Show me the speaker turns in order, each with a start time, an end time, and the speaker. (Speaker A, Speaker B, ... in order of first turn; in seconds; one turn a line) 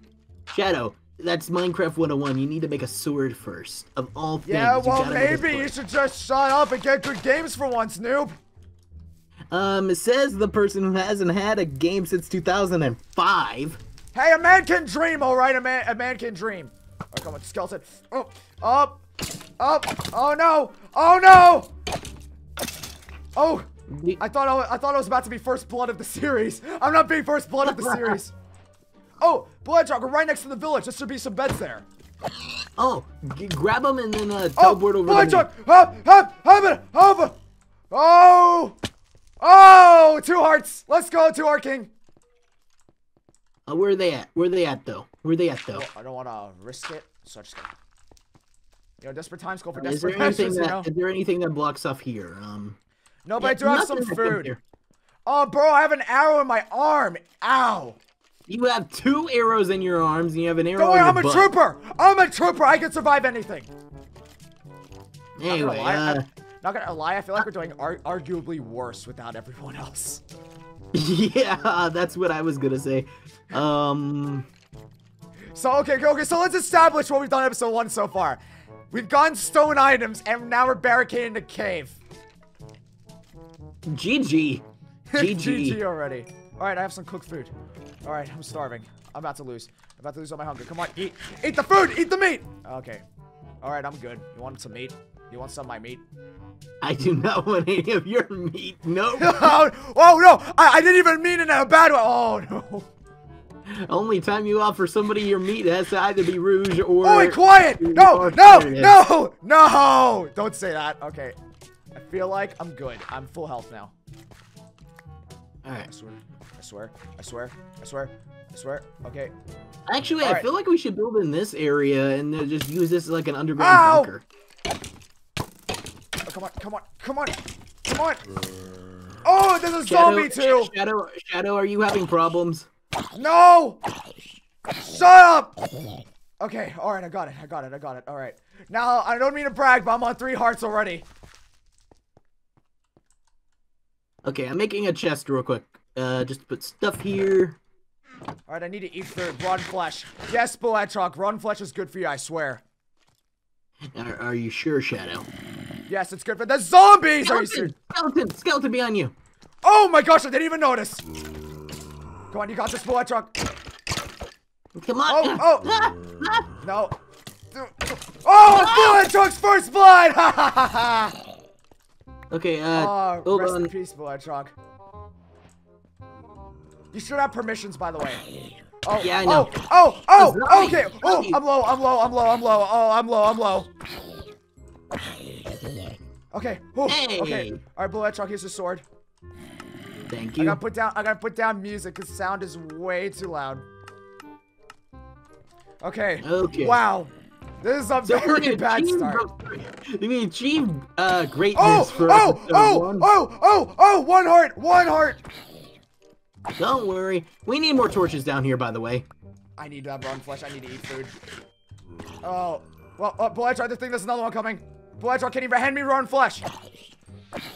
Speaker A: 0.5-5.7
Speaker B: 4.4-8.3
Speaker A: 9.5-13.8
Speaker B: 14.1-19.0
Speaker B: 19.6-21.7
Speaker B: 23.3-28.3
Speaker A: 23.9-24.2
Speaker A: 27.6-28.1
Speaker B: 29.2-31.9
Speaker A: 32.8-35.5
Speaker B: 34.5-37.4
Speaker B: 37.9-38.8
Speaker B: 39.4-41.9
Speaker A: 43.7-45.8
Speaker B: 45.7-47.7
Speaker B: 49.0-50.9
Speaker A: 49.8-52.8
Speaker B: 53.2-54.5
Speaker A: 53.4-54.6
Speaker B: 55.2-58.0
Speaker A: 58.5-61.5
Speaker B: 60.8-63.7
Speaker A: 65.4-66.2
Speaker B: 65.5-70.2
Speaker A: 70.9-74.5
Speaker B: 75.5-78.4
Speaker B: 78.9-82.0
Speaker A: 83.9-84.6
Speaker B: 85.1-87.5
Speaker A: 85.1-85.8
Speaker B: 88.0-93.0
Speaker B: 93.6-96.0
Speaker A: 96.8-99.6
Speaker B: 99.2-102.9
Speaker A: 103.7-109.0
Speaker B: 107.0-111.3
Speaker B: 111.9-113.9
Speaker B: 115.8-119.3
Speaker A: 119.9-124.2
Speaker B: 120.2-120.5
Speaker B: 123.6-124.1
Speaker B: 126.3-128.2
Speaker B: 129.2-130.7
Speaker A: 129.9-132.7
Speaker B: 133.1-133.8
Speaker B: 134.8-135.6
Speaker B: 136.4-141.1
Speaker A: 144.2-147.6
Speaker B: 148.5-152.6
Speaker A: 153.9-155.2
Speaker B: 155.9-157.7
Speaker A: 157.2-159.1
Speaker B: 159.6-161.0
Speaker B: 162.3-163.3
Speaker A: 164.7-166.5
Speaker B: 165.1-165.7
Speaker B: 166.6-166.9
Speaker B: 167.5-171.1
Speaker A: 168.4-169.1
Speaker A: 172.3-173.7
Speaker B: 172.7-174.5
Speaker B: 176.9-178.2
Speaker B: 178.8-183.7
Speaker A: 179.0-181.4
Speaker B: 186.3-188.8
Speaker A: 186.8-187.6
Speaker A: 190.1-190.6
Speaker B: 190.4-193.6
Speaker B: 195.8-197.1
Speaker A: 196.2-196.8
Speaker B: 197.6-199.2
Speaker A: 198.0-203.1
Speaker B: 201.5-205.2
Speaker A: 206.6-209.1
Speaker B: 209.6-211.1
Speaker B: 212.2-216.5